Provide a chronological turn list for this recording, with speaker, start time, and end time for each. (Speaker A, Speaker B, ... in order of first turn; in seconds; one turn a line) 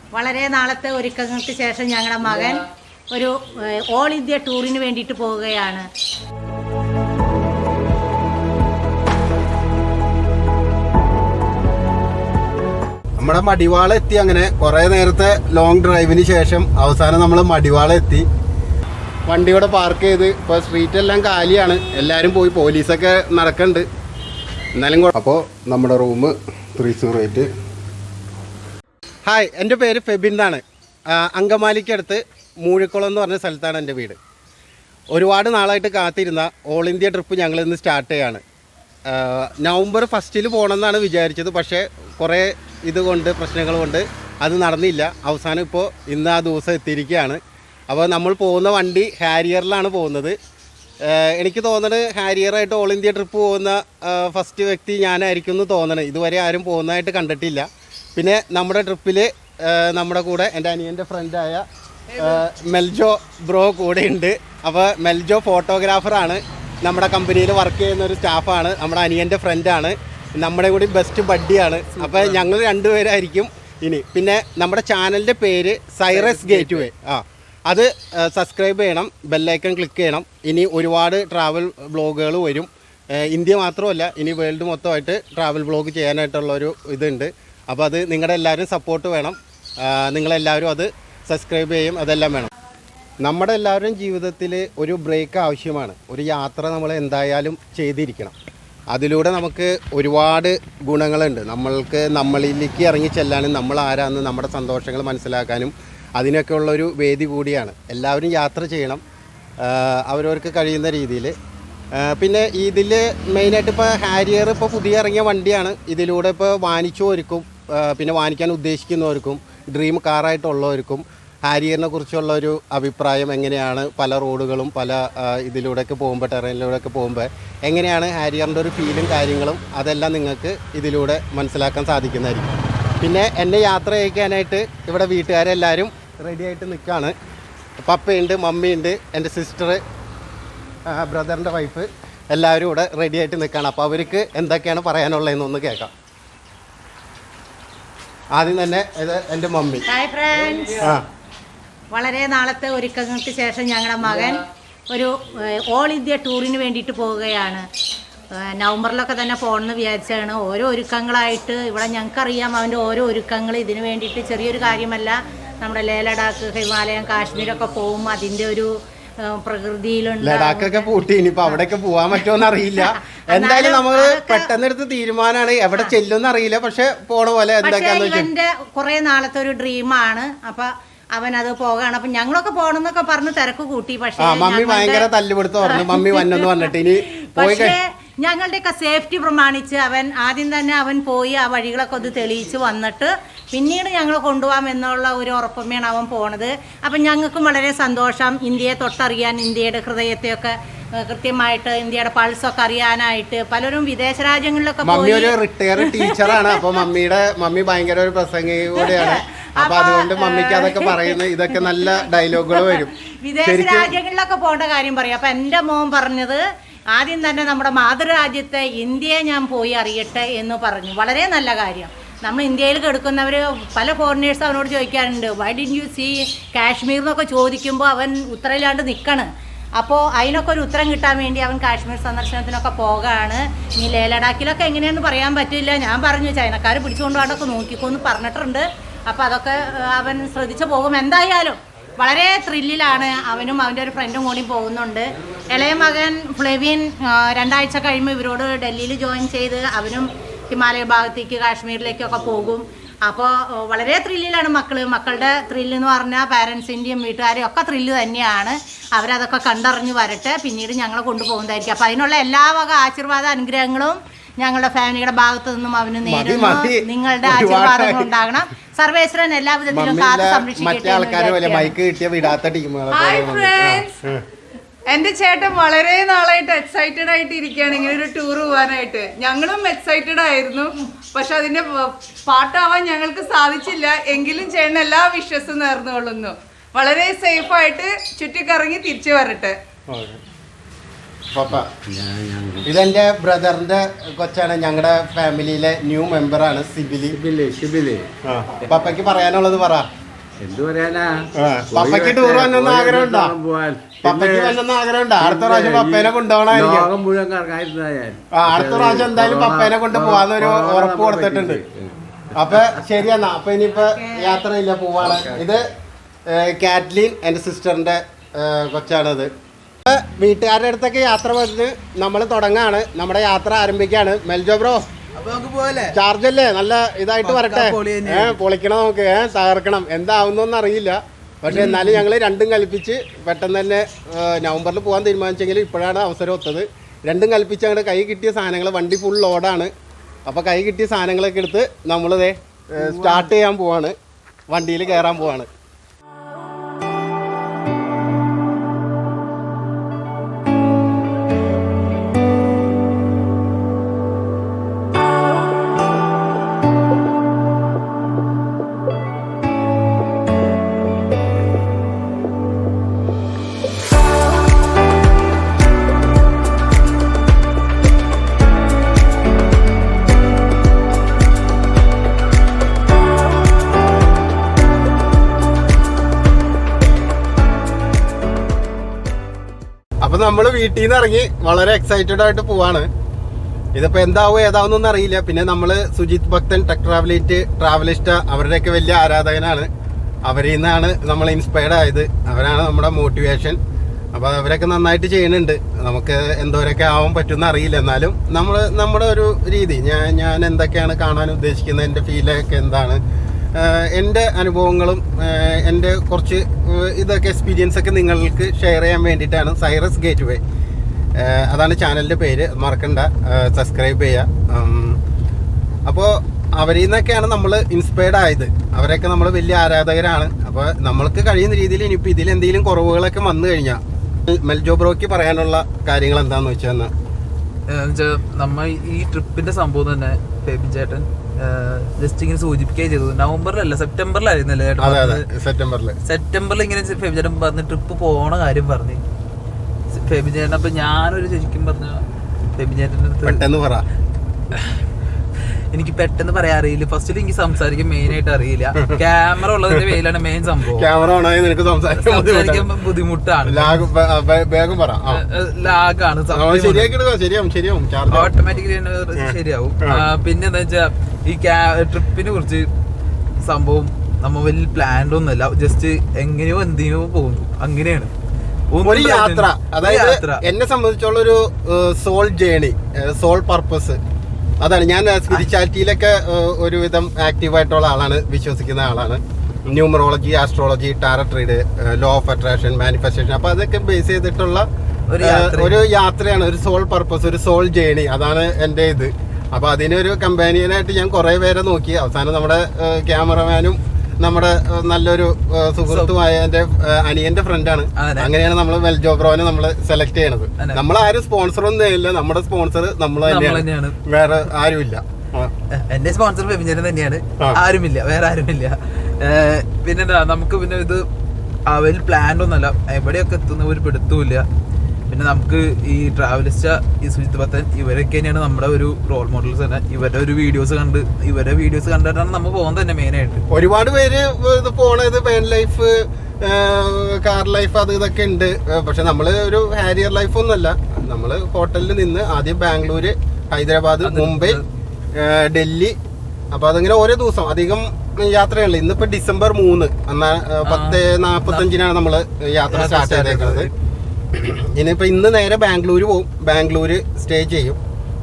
Speaker A: 0.1-5.8
Speaker B: 13.2-18.2
Speaker B: 19.3-23.9
Speaker B: 24.8-27.5
Speaker B: 29.2-34.2
Speaker B: 35.1-38.4
Speaker B: 39.1-50.4
Speaker B: 51.0-61.6
Speaker B: 62.2-92.5
Speaker C: 71.9-72.5
Speaker C: 76.1-76.8
Speaker B: 93.2-98.3
Speaker B: 98.9-109.0
Speaker B: 109.6-111.3
Speaker B: 111.9-137.1
Speaker B: 137.8-139.8
Speaker B: 140.8-145.9
Speaker B: 148.3-149.8
Speaker A: 149.9-150.9
Speaker B: 150.8-151.0
Speaker A: 151.9-157.7
Speaker A: 158.4-170.9
Speaker B: 170.2-178.3
Speaker A: 173.3-174.5
Speaker A: 177.6-185.1
Speaker B: 184.2-187.8
Speaker A: 185.6-186.7
Speaker A: 187.3-206.6
Speaker B: 204.8-212.9
Speaker A: 208.8-212.0
Speaker A: 212.5-216.4
Speaker B: 213.4-214.0
Speaker A: 216.9-271.7
Speaker B: 266.0-268.1
Speaker B: 269.7-274.2
Speaker D: 272.9-273.9
Speaker D: 274.9-289.6
Speaker B: 289.9-290.2
Speaker B: 291.3-291.7
Speaker E: 291.5-292.7
Speaker B: 292.6-297.2
Speaker E: 297.1-298.1
Speaker B: 298.2-299.9
Speaker E: 298.6-298.9
Speaker E: 300.4-304.6
Speaker B: 301.3-303.3
Speaker B: 304.0-306.9
Speaker E: 305.2-312.6
Speaker B: 308.3-311.6
Speaker B: 312.3-315.7
Speaker A: 313.9-314.4
Speaker E: 315.0-315.5
Speaker B: 316.3-319.3
Speaker B: 319.8-324.9
Speaker C: 325.1-325.9
Speaker B: 325.9-339.7
Speaker C: 327.2-328.4
Speaker C: 331.5-332.0
Speaker B: 340.2-343.9
Speaker C: 342.8-343.3
Speaker B: 344.5-345.5
Speaker B: 380.0-382.9
Speaker B: 383.7-389.7
Speaker B: 390.2-393.6
Speaker B: 394.1-403.0
Speaker B: 403.5-410.4
Speaker B: 411.1-415.0
Speaker B: 415.9-426.9
Speaker C: 427.7-435.2
Speaker B: 434.8-436.0
Speaker C: 436.0-439.0
Speaker C: 439.9-442.0
Speaker C: 442.6-443.4
Speaker B: 443.2-443.8
Speaker C: 444.5-444.8
Speaker C: 445.7-450.9
Speaker B: 450.7-452.7
Speaker C: 451.9-453.9
Speaker B: 453.4-455.2
Speaker C: 455.1-456.9
Speaker B: 456.3-458.3
Speaker C: 458.1-462.7
Speaker B: 459.1-460.0
Speaker C: 463.4-468.1
Speaker C: 468.7-470.4
Speaker B: 468.8-474.0
Speaker B: 474.6-484.7
Speaker C: 485.1-485.8
Speaker B: 485.2-505.5
Speaker C: 495.9-496.1
Speaker C: 498.0-498.3
Speaker C: 503.3-504.0
Speaker C: 505.7-511.1
Speaker C: 511.7-514.5
Speaker C: 515.1-523.4
Speaker B: 523.5-534.6
Speaker C: 534.0-534.6
Speaker B: 535.1-536.0
Speaker B: 536.5-543.7
Speaker C: 540.6-541.7
Speaker C: 542.7-543.7
Speaker B: 544.3-547.8